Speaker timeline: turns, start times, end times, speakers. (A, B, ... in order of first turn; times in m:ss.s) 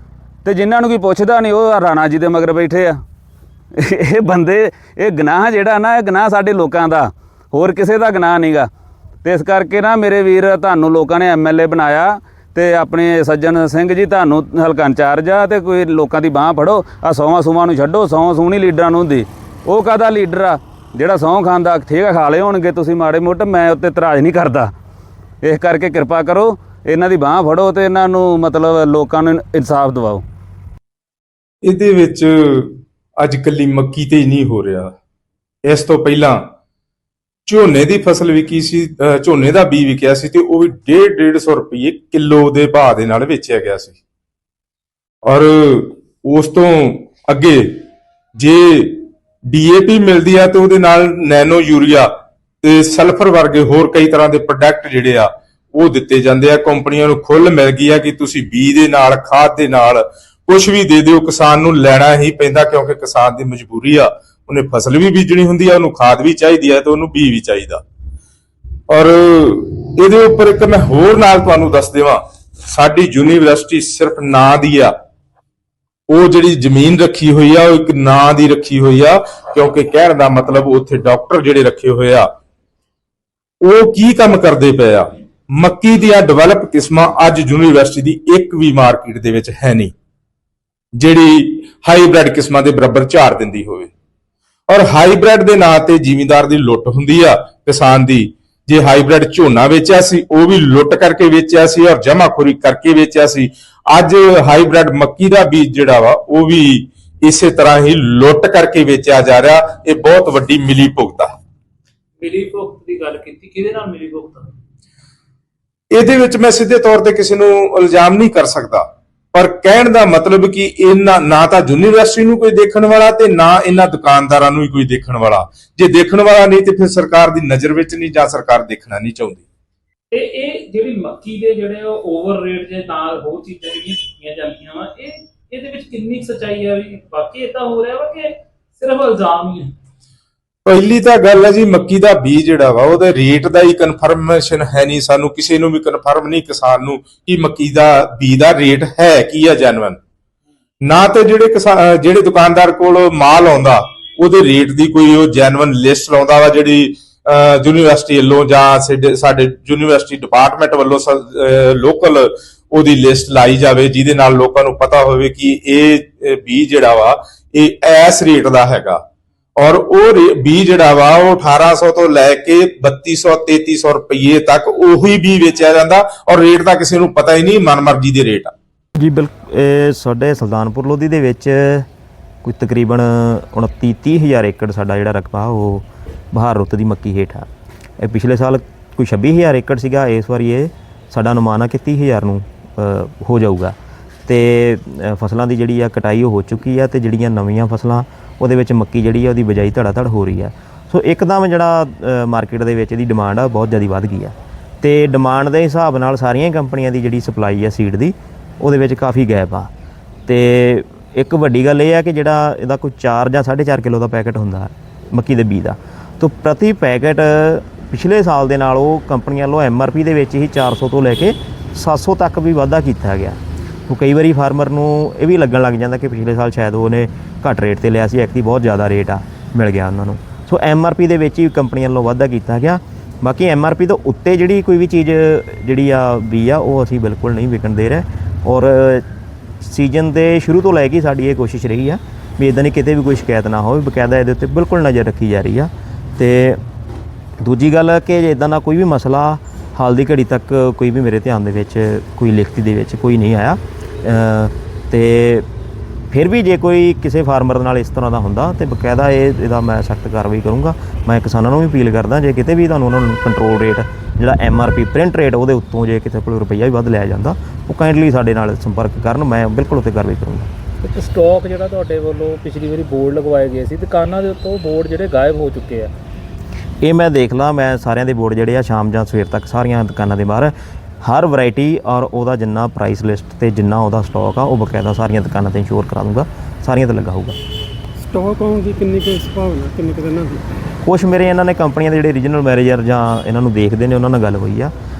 0:00.4-0:03.0 A
0:03.8-0:08.7 A
0:09.2-0:24.7 A
0:25.4-0:30.2 A
0:31.6-0:34.9 B
0:35.6-0:36.4 B
0:37.5-0:44.0 B
0:45.2-0:47.8 B
0:48.4-0:52.1 B
0:52.6-1:07.8 B
1:08.9-1:14.9 B
1:16.1-1:22.3 B
1:23.6-1:29.9 B
1:31.0-1:33.9 B
1:34.7-1:51.3 B
1:52.2-1:54.5 C
1:55.9-2:09.4 B
2:10.1-2:19.7 C
2:20.6-2:30.0 B
2:30.8-2:49.0 B
2:49.6-2:58.5 B
2:59.0-3:01.9 D
3:02.4-3:07.5 D
3:08.0-3:13.7 D
3:14.3-3:29.7 D
3:30.3-3:59.0 D
3:59.6-4:06.6 D
4:07.4-4:15.5 D
4:16.1-4:30.5 D
4:30.8-4:35.9 C
4:36.8-4:47.4 D
4:48.0-4:50.5 E
4:50.8-4:54.7 D